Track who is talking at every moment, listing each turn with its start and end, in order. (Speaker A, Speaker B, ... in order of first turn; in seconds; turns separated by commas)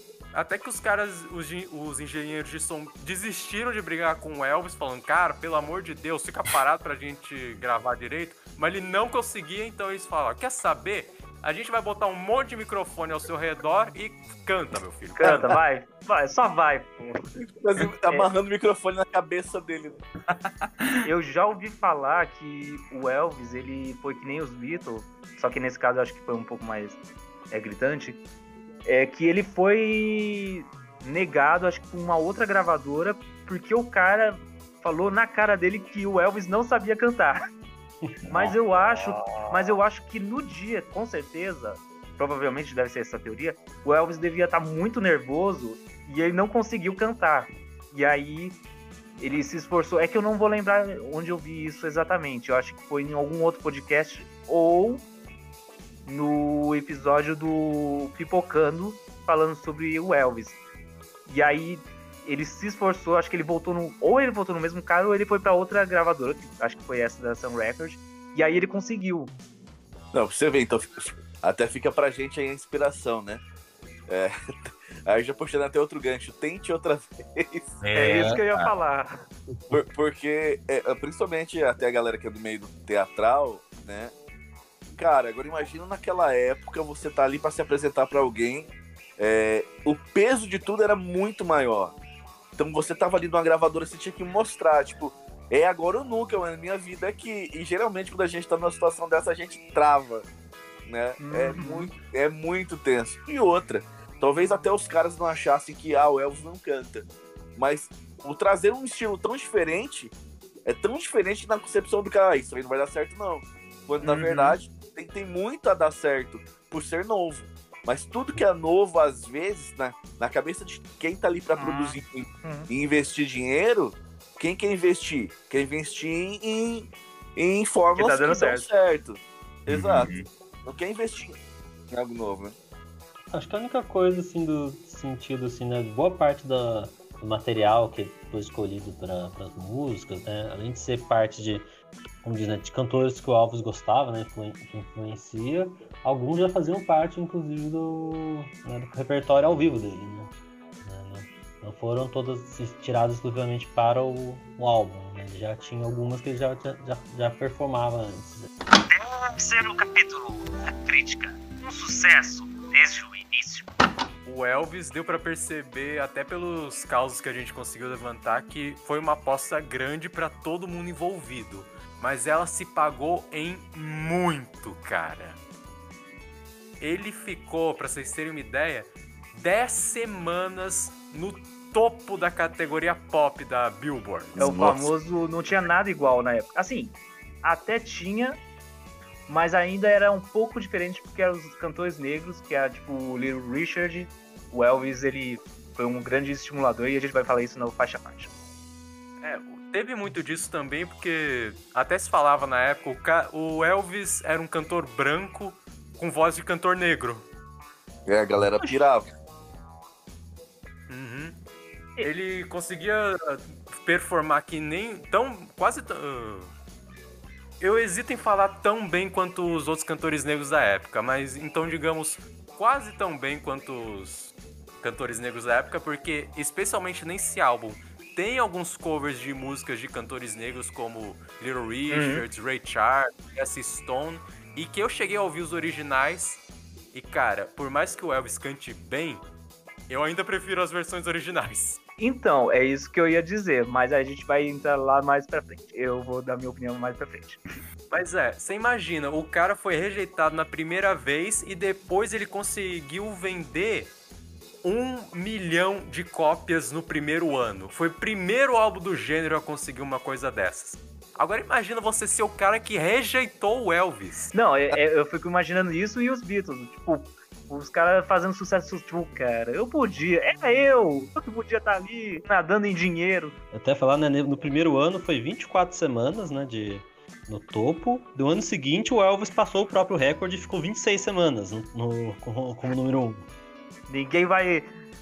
Speaker A: 0.3-15.5, Speaker B: 15.2-17.1, Speaker C: 15.2-15.5, Speaker C: 17.4-20.0, Speaker B: 18.0-18.3, Speaker D: 20.3-21.1, Speaker B: 21.0-27.0, Speaker B: 27.5-28.2, Speaker B: 28.9-37.4, Speaker E: 38.0-38.5, Speaker B: 38.3-48.6, Speaker B: 49.2-55.0, Speaker B: 56.0-60.6, Speaker B: 61.3-69.3, Speaker C: 70.1-73.4, Speaker C: 75.1-77.8, Speaker D: 77.8-78.7, Speaker B: 77.9-79.2, Speaker C: 79.7-84.1, Speaker C: 84.9-91.9, Speaker C: 92.6-100.3, Speaker C: 100.9-110.1, Speaker B: 101.2-101.9, Speaker C: 110.6-130.1, Speaker B: 114.0-114.6, Speaker B: 121.6-122.7, Speaker B: 128.0-128.7, Speaker D: 129.7-130.3, Speaker C: 130.6-131.3, Speaker C: 131.9-132.5, Speaker E: 133.3-141.7, Speaker E: 142.2-150.3, Speaker E: 150.8-158.5, Speaker B: 158.9-163.7, Speaker A: 164.2-175.4, Speaker A: 176.8-184.5, Speaker C: 184.3-184.9, Speaker B: 184.4-188.4, Speaker B: 189.3-198.3, Speaker A: 199.2-207.3, Speaker C: 208.1-209.1, Speaker A: 210.9-211.4, Speaker A: 212.0-216.5, Speaker A: 217.6-239.2, Speaker B: 231.9-232.2, Speaker A: 239.9-241.8, Speaker B: 242.0-247.4, Speaker A: 247.9-253.9, Speaker A: 254.6-264.3, Speaker B: 264.3-273.4, Speaker E: 273.5-283.3, Speaker B: 283.9-284.6